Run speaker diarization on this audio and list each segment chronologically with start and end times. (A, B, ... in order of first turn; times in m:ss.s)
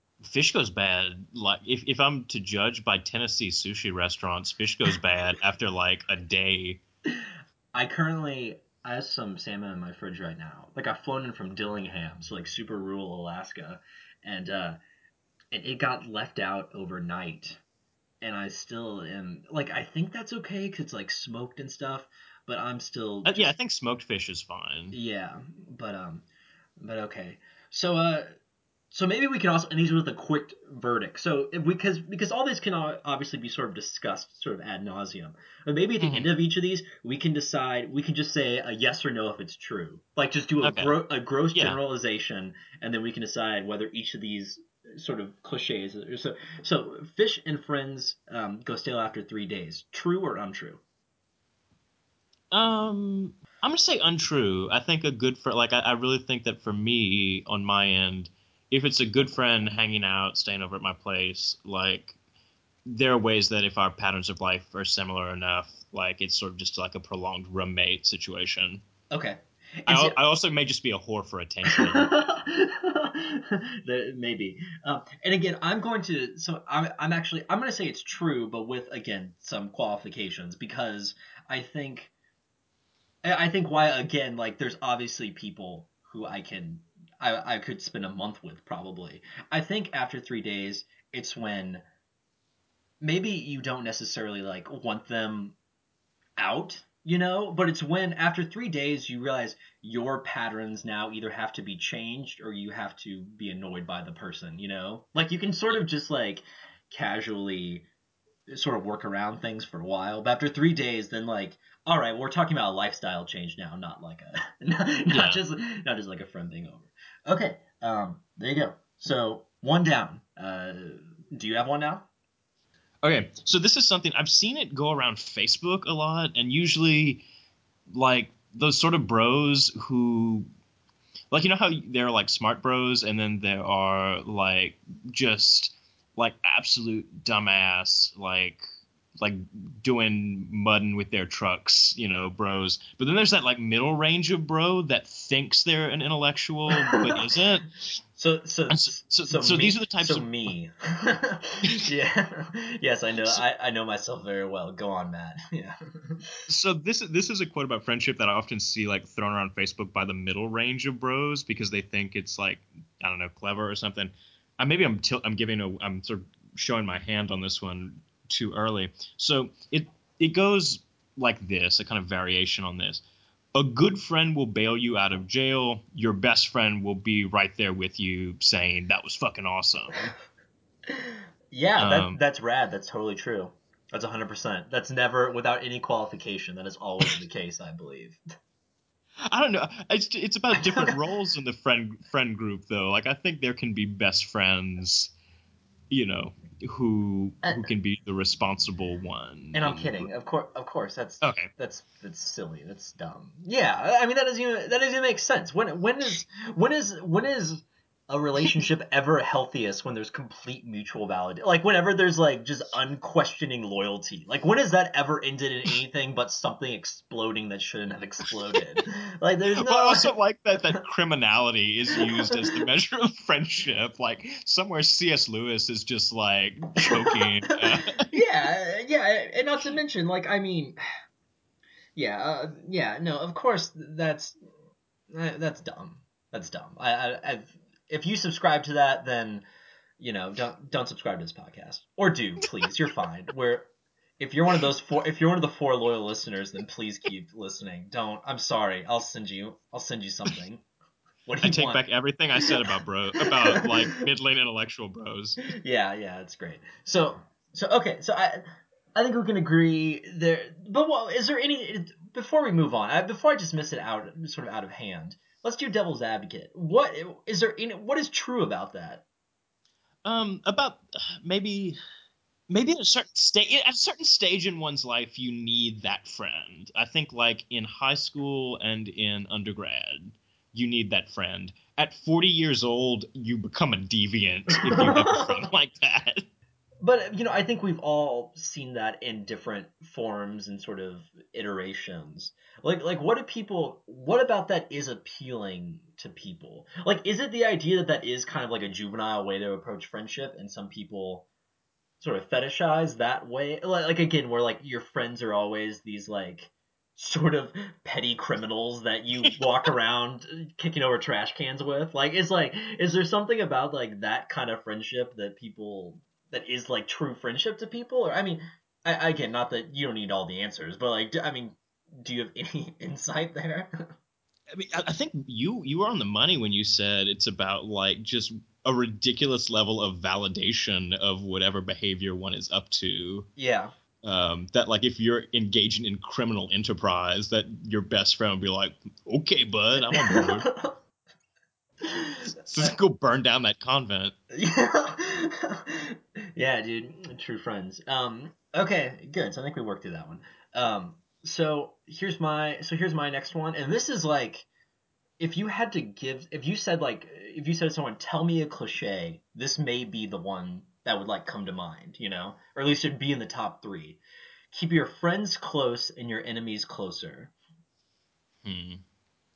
0:00.2-0:06.8 A
0:07.8-0:14.8 B
0:15.5-0:17.6 B
0:18.2-0:23.6 B
0:23.2-0:25.0 A
0:24.9-0:26.2 B
0:26.8-0:28.3 B
0:28.9-0:50.8 B
0:36.0-0:36.3 A
0:40.6-0:41.0 A
0:41.5-0:41.8 A
0:52.5-1:02.2 A
1:02.9-1:08.8 A
1:09.1-1:10.2 B
1:09.9-1:12.1 A
1:11.7-1:22.1 B
1:23.2-1:31.8 B
1:33.0-1:35.6 B
1:36.4-1:47.9 B
1:48.5-2:02.1 B
1:55.1-1:55.4 A
2:03.0-2:07.3 A
2:07.9-2:10.5 A
2:11.3-2:18.6 A
2:19.2-2:27.7 A
2:26.7-2:27.2 B
2:28.2-2:36.4 B
2:28.7-2:30.3 A
2:36.5-2:53.0 A
2:53.6-3:00.1 A
3:00.9-3:08.2 B
3:01.8-3:02.2 A
3:09.3-3:15.1 A
3:10.5-3:11.0 B
3:15.9-3:20.1 A
3:19.5-3:40.1 B
3:21.2-3:21.5 A
3:39.6-3:48.2 A
3:42.0-3:42.4 B
3:46.9-3:47.6 B
3:48.1-3:50.8 B
3:52.0-3:54.4 B
3:55.1-3:59.4 B
4:00.0-4:10.6 B
4:11.3-4:11.8 B
4:11.4-4:15.4 A
4:13.2-4:14.0 B
4:15.5-4:29.0 B
4:30.0-4:31.8 A
4:32.5-4:46.3 A
4:44.6-4:45.5 B
4:46.8-5:01.3 B
5:02.0-5:23.7 B
5:24.5-5:33.3 A
5:33.4-5:33.7 B
5:34.0-5:40.5 A
5:39.9-5:40.8 B
5:41.8-5:42.7 B
5:42.4-5:44.2 A
5:44.3-5:54.5 B
5:55.2-6:04.0 B
6:04.5-6:07.3 B
6:08.4-6:08.8 A